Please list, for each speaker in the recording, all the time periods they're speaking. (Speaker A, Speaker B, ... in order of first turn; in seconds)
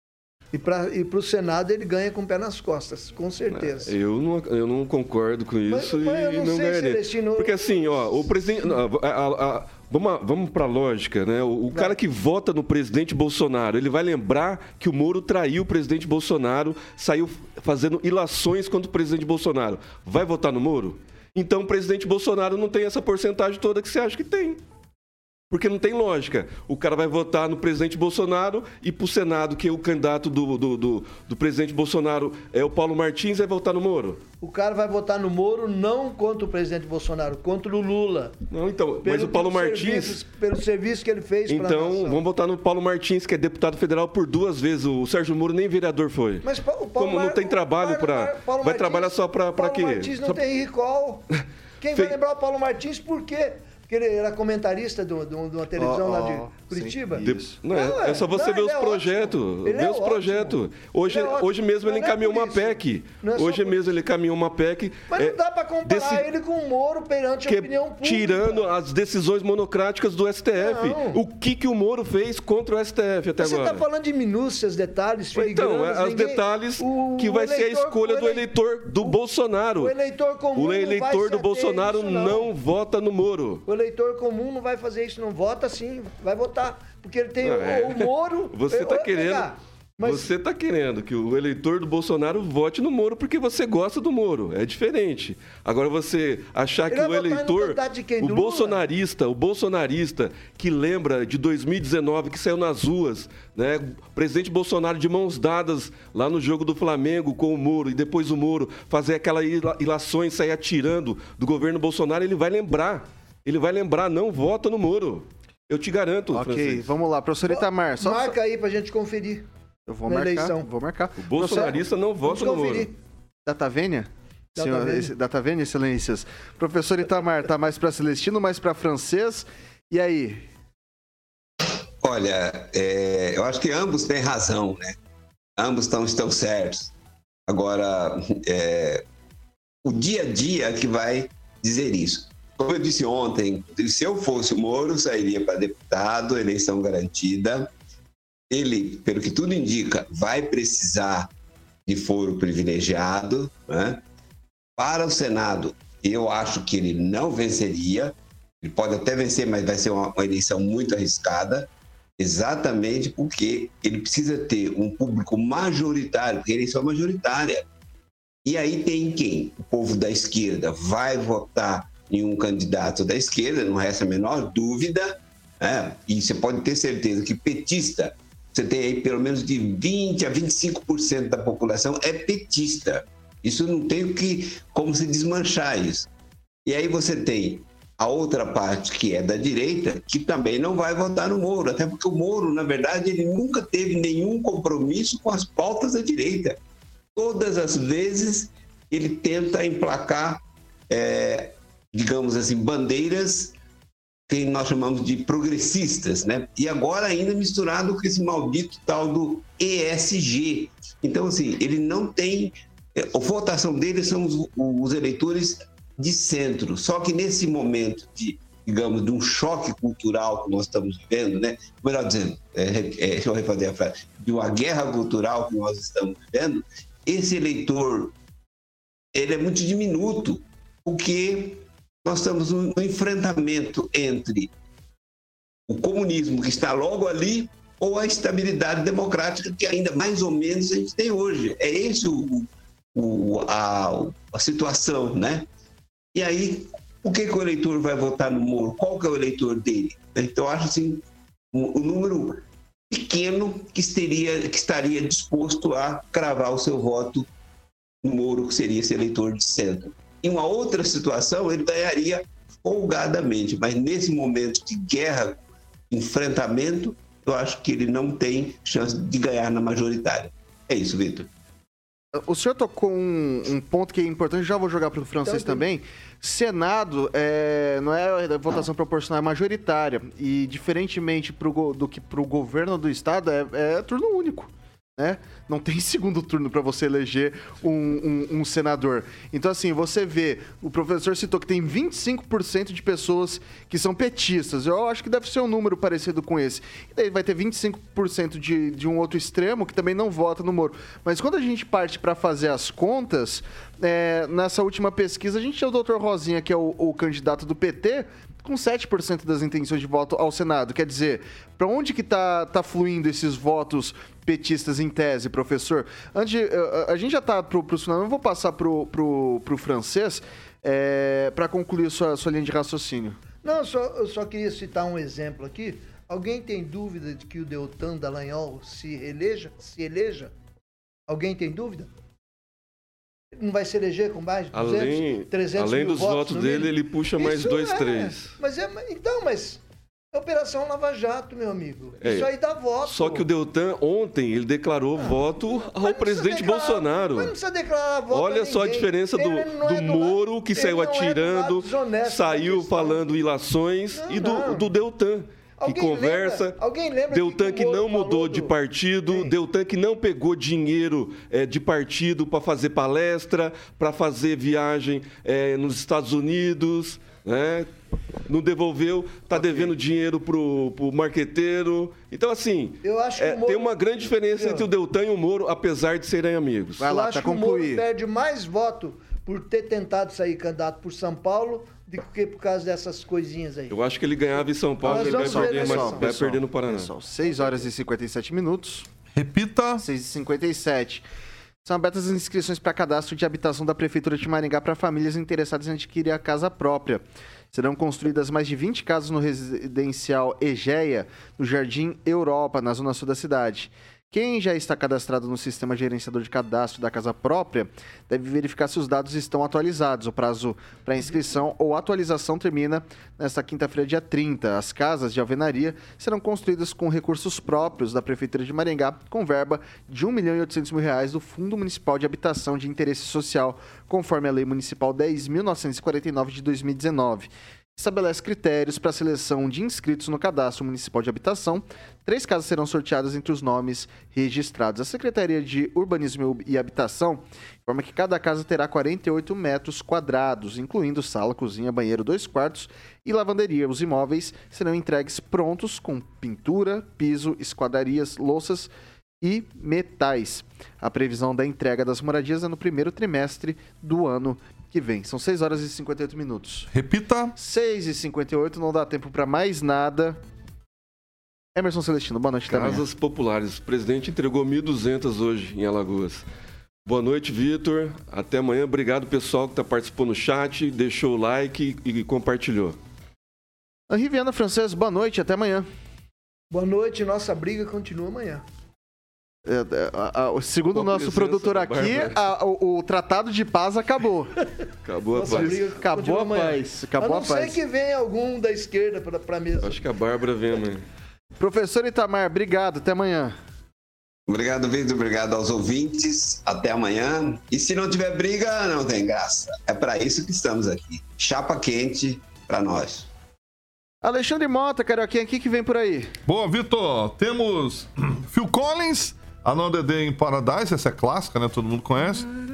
Speaker A: 0.5-3.9, 5.7-8.2, 11.7-11.9, 34.4-38.3, 39.0-42.2, 46.4-51.2, 51.8-63.9, 65.1-68.7, 70.5-71.2, 73.4-78.5, 79.8-82.5, 83.7-90.3, 96.9-98.8, 117.4-119.5, 120.1-120.7, 121.3-122.9, 124.5-125.1, 275.2-275.6, 323.4-330.3, 331.1-331.9, 333.4-339.6, 340.1-343.2, 345.0-353.1, 353.9-354.7, 355.6-358.5, 359.1-359.3, 372.8-374.7, 376.8-383.8, 384.8-386.1, 387.2-387.6, 476.5-478.4, 485.1-489.8
Speaker B: 3.5-24.6, 25.5-34.2, 38.5-40.2, 41.5-46.4, 47.0-50.4, 57.2-66.2, 67.5-73.8, 75.3-80.0, 80.5-83.6, 87.4-89.5, 90.0-116.9, 121.2-122.9, 334.5-338.3, 342.0-347.3, 348.1-367.7, 368.2-376.9, 383.7-386.9, 462.5-466.2, 466.9-472.8, 480.7-482.2, 484.8-485.6, 489.6-490.9
Speaker C: 55.8-57.6, 116.3-118.3, 119.9-121.7, 123.5-130.5, 272.1-323.2, 369.3-369.7, 376.8-377.8, 384.8-388.9, 389.8-391.0, 391.6-456.7, 457.4-460.2, 461.5-462.8, 473.9-475.7, 479.4-484.4, 485.2-487.6, 491.4-493.4, 504.0-506.1
Speaker D: 132.0-134.9, 135.6-136.9, 137.5-139.0, 139.8-147.7, 148.5-151.3, 151.8-154.0, 154.8-167.7, 168.4-186.1, 186.7-196.6, 197.1-203.5, 204.3-228.1, 229.1-234.5, 235.7-245.5, 246.1-257.3, 258.0-271.3, 494.3-503.1
Speaker E: 389.1-389.8, 456.7-457.3, 506.2-512.3